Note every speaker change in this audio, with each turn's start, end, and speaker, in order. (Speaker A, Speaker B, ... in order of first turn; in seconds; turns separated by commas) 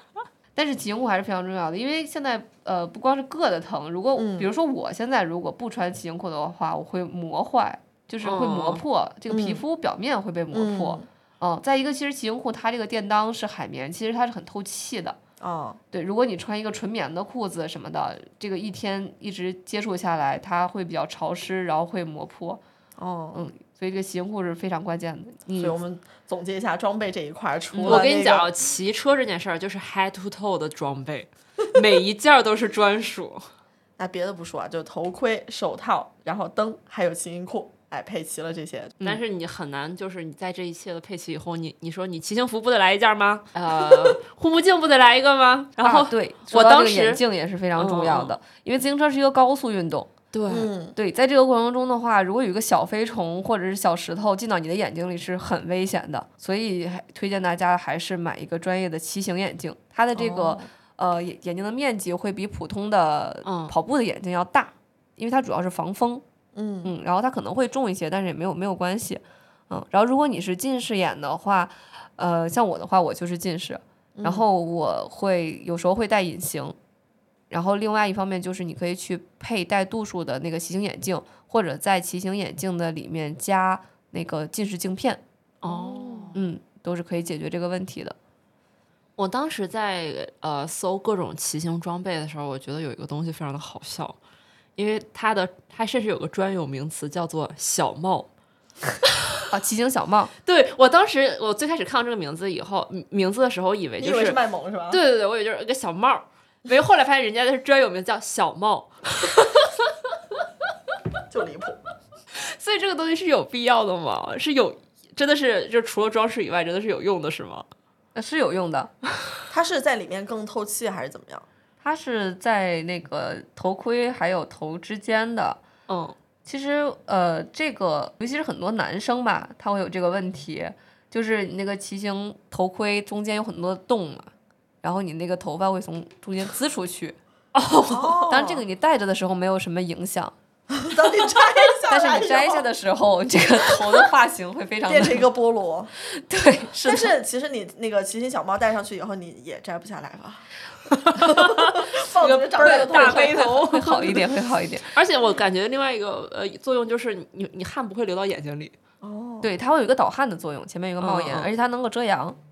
Speaker A: 0.6-15.2, Speaker B: 4.2-4.5, Speaker C: 8.2-8.8, Speaker B: 9.3-9.6, Speaker B: 10.5-11.1, Speaker B: 15.4-15.8, Speaker A: 15.9-22.6, Speaker B: 23.0-23.4, Speaker A: 23.3-25.8, Speaker B: 25.6-28.5, Speaker A: 27.7-28.1, Speaker C: 27.9-33.5, Speaker B: 34.0-39.0, Speaker C: 39.0-47.2, Speaker A: 45.8-50.1, Speaker C: 47.8-48.4, Speaker C: 50.3-50.7, Speaker B: 50.5-51.0, Speaker A: 51.0-66.2, Speaker B: 60.1-60.7, Speaker C: 63.5-63.7, Speaker B: 66.5-66.9, Speaker A: 66.8-76.8, Speaker B: 74.2-74.5, Speaker A: 77.5-85.2, Speaker C: 85.6-86.4, Speaker B: 85.7-86.3, Speaker A: 86.3-88.2, Speaker C: 89.2-94.2, Speaker C: 94.8-98.3, Speaker A: 99.5-100.3, Speaker C: 100.5-104.4, Speaker B: 104.0-105.0, Speaker C: 104.9-109.7, Speaker B: 111.3-111.8, Speaker C: 112.4-117.7, Speaker A: 118.2-118.9, Speaker B: 119.5-121.5, Speaker A: 121.8-125.6, Speaker C: 125.9-126.2, Speaker A: 126.5-134.3, Speaker A: 134.8-137.2, Speaker C: 137.5-138.4, Speaker B: 137.9-138.7, Speaker A: 138.3-140.3, Speaker B: 140.8-142.7, Speaker A: 141.9-145.3, Speaker B: 144.9-145.9, Speaker A: 146.0-147.2, Speaker B: 146.8-150.5, Speaker C: 150.9-158.8, Speaker B: 151.1-153.5, Speaker A: 152.6-154.9, Speaker B: 159.0-159.5, Speaker A: 159.4-162.4, Speaker C: 161.0-161.5